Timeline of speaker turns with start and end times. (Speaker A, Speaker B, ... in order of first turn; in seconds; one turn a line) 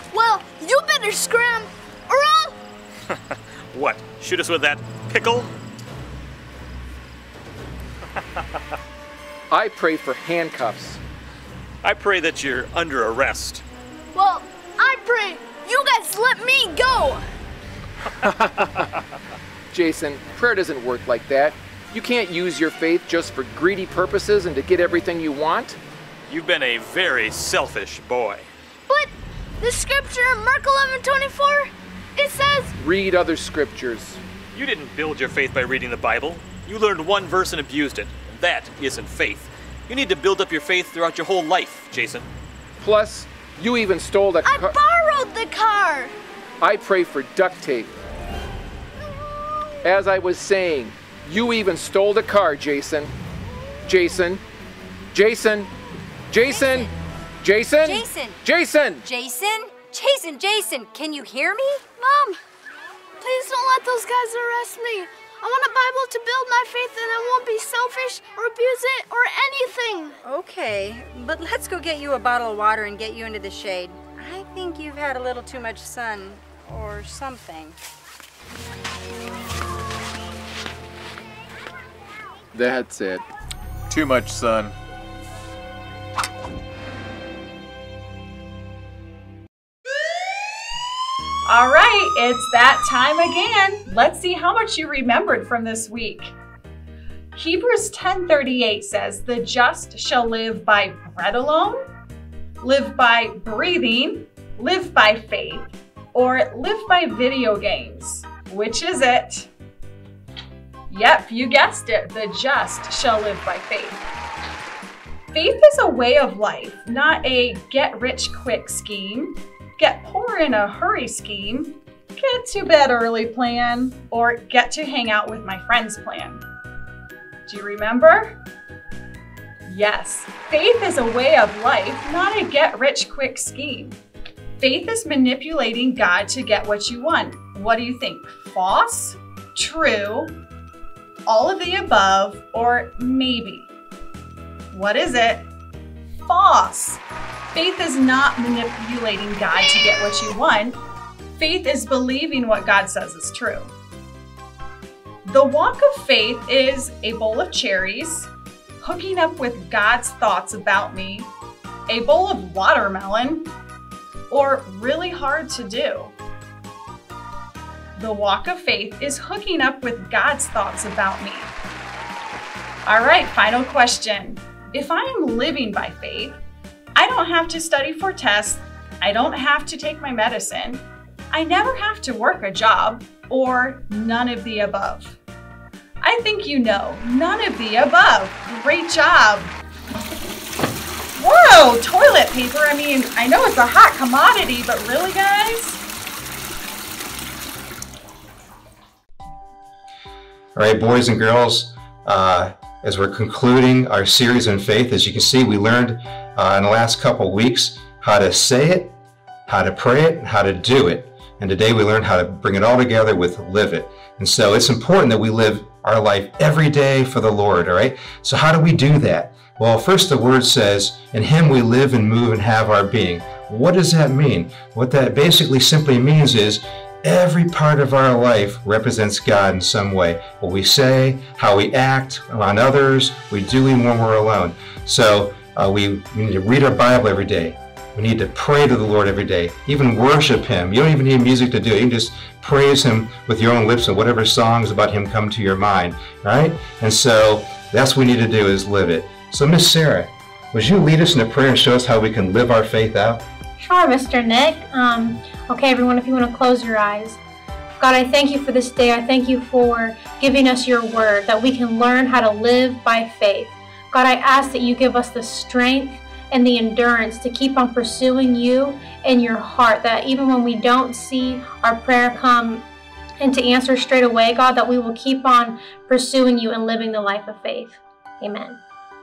Speaker A: 0.1-2.6
Speaker B: 3.7-5.5
Speaker C: 9.5-11.0
Speaker B: 11.8-13.6
Speaker A: 14.1-17.2
Speaker C: 19.7-25.8
Speaker B: 26.3-28.5
Speaker A: 28.9-32.7
Speaker C: 32.8-34.2
Speaker B: 34.5-42.3
Speaker C: 42.8-44.8
Speaker A: 44.4-46.1
Speaker C: 46.6-48.0
Speaker C: 49.8-53.1
Speaker C: 53.9-54.4
Speaker C: 55.1-55.7
Speaker C: 56.3-56.9
Speaker D: 56.5-56.9
Speaker C: 57.4-59.0
Speaker D: 57.8-62.0
Speaker A: 62.0-62.4
Speaker A: 63.2-70.2
Speaker D: 70.2-77.8
Speaker C: 82.5-83.2
Speaker B: 83.9-84.7
Speaker E: 91.5-96.3
Speaker E: 97.3-101.8
Speaker E: 102.6-109.5
Speaker E: 110.9-114.0
Speaker E: 115.3-126.4
Speaker E: 127.5-128.4
Speaker E: 129.7-134.0
Speaker E: 134.6-140.4
Speaker E: 141.3-143.7
Speaker E: 144.7-145.5
Speaker E: 146.3-147.0
Speaker E: 147.5-150.8
Speaker E: 151.4-153.7
Speaker E: 155.3-158.3
Speaker E: 158.8-161.3
Speaker E: 161.9-163.5
Speaker E: 164.3-166.1
Speaker E: 168.0-171.5
Speaker E: 172.9-176.4
Speaker E: 176.9-185.2
Speaker E: 186.0-189.5
Speaker E: 191.2-195.8
Speaker F: 200.6-208.9
Speaker F: 209.5-253.2
Speaker G: 253.6-257.0
Speaker G: 257.8-265.9
Speaker G: 266.4-267.6
Speaker G: 268.1-268.7
Speaker G: 270.2-271.2
Speaker G: 271.8-272.5
Speaker G: 273.3-277.7
Speaker G: 278.2-278.5